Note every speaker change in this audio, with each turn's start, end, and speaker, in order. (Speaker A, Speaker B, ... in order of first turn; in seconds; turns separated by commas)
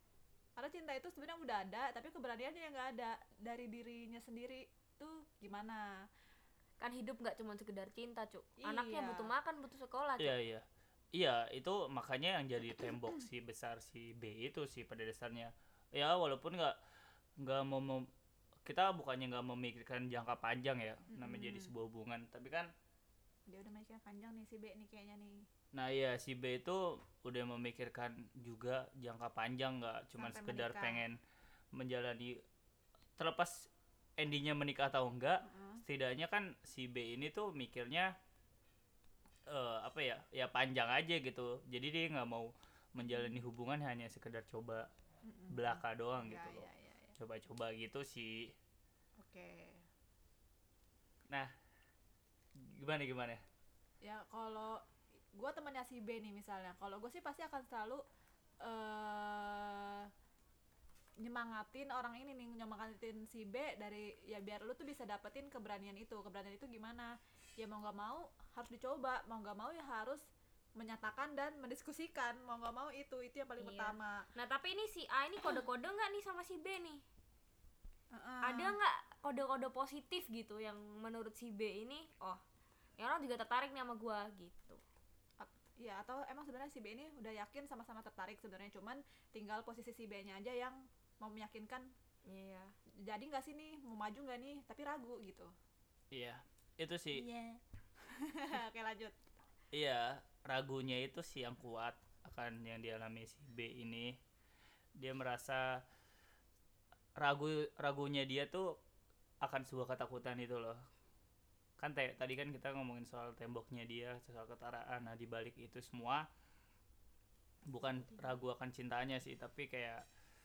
Speaker A: 0.6-6.0, Speaker B: 6.8-10.3, Speaker A: 8.6-9.3, Speaker C: 10.2-16.8, Speaker C: 17.4-18.1, Speaker C: 18.6-22.7, Speaker A: 21.1-21.7, Speaker A: 23.5-25.4, Speaker C: 25.7-31.2, Speaker A: 30.2-31.1, Speaker C: 31.7-32.4, Speaker C: 33.2-38.1, Speaker A: 35.4-35.8, Speaker C: 39.5-44.9, Speaker A: 43.0-43.4, Speaker A: 45.2-47.1, Speaker C: 45.5-48.5, Speaker A: 49.2-49.8, Speaker C: 52.6-53.4, Speaker A: 54.0-54.8, Speaker A: 55.3-58.0, Speaker A: 58.6-60.1, Speaker A: 61.2-70.2, Speaker A: 70.8-74.2, Speaker B: 73.6-77.0, Speaker A: 78.1-78.7, Speaker B: 78.4-82.4, Speaker B: 83.0-84.8, Speaker A: 85.4-91.9, Speaker B: 92.3-92.7, Speaker A: 93.0-95.5, Speaker C: 96.1-97.3, Speaker A: 97.3-97.6, Speaker A: 98.1-99.2, Speaker C: 99.7-104.2, Speaker C: 105.0-105.8, Speaker C: 107.2-108.8, Speaker C: 109.4-110.8, Speaker C: 111.8-116.2, Speaker C: 117.7-120.0